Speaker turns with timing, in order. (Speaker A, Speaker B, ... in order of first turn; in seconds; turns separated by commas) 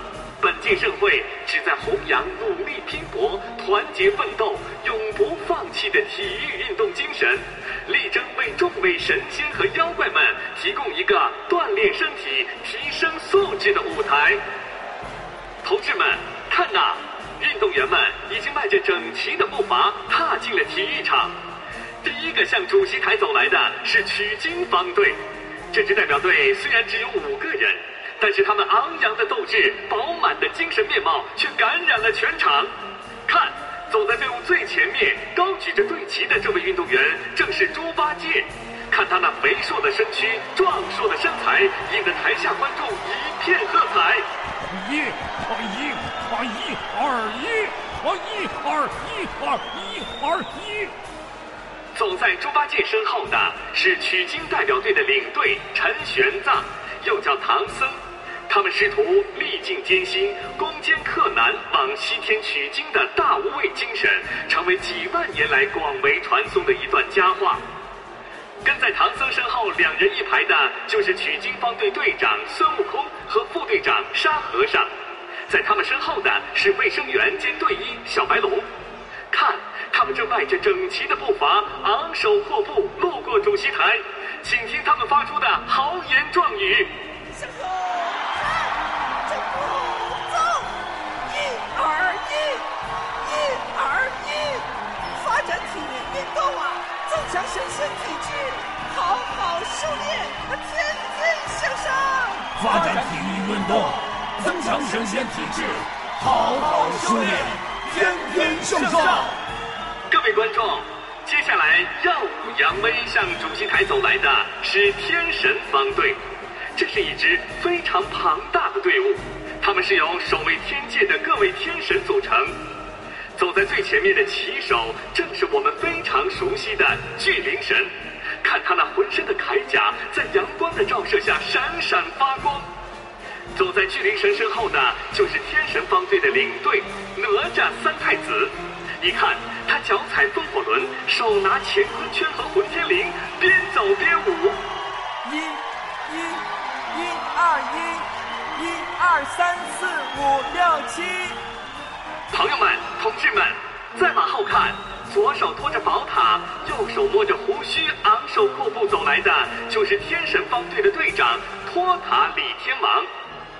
Speaker A: 0.4-14.4, Speaker A: 15.6-21.4, Speaker A: 22.0-32.7, Speaker A: 33.2-44.3, Speaker B: 44.6-50.9, Speaker A: 51.9-67.6, Speaker A: 68.6-74.9, Speaker A: 75.5-78.7, Speaker A: 79.3-87.0, Speaker C: 87.3-88.7, Speaker C: 89.2-90.7, Speaker C: 91.3-92.7, Speaker C: 93.2-102.7, Speaker B: 102.6-109.3, Speaker C: 108.0-108.5, Speaker A: 110.1-116.2, Speaker A: 116.7-122.6, Speaker A: 123.3-132.7, Speaker A: 133.5-144.6, Speaker C: 145.2-151.4, Speaker A: 152.3-163.1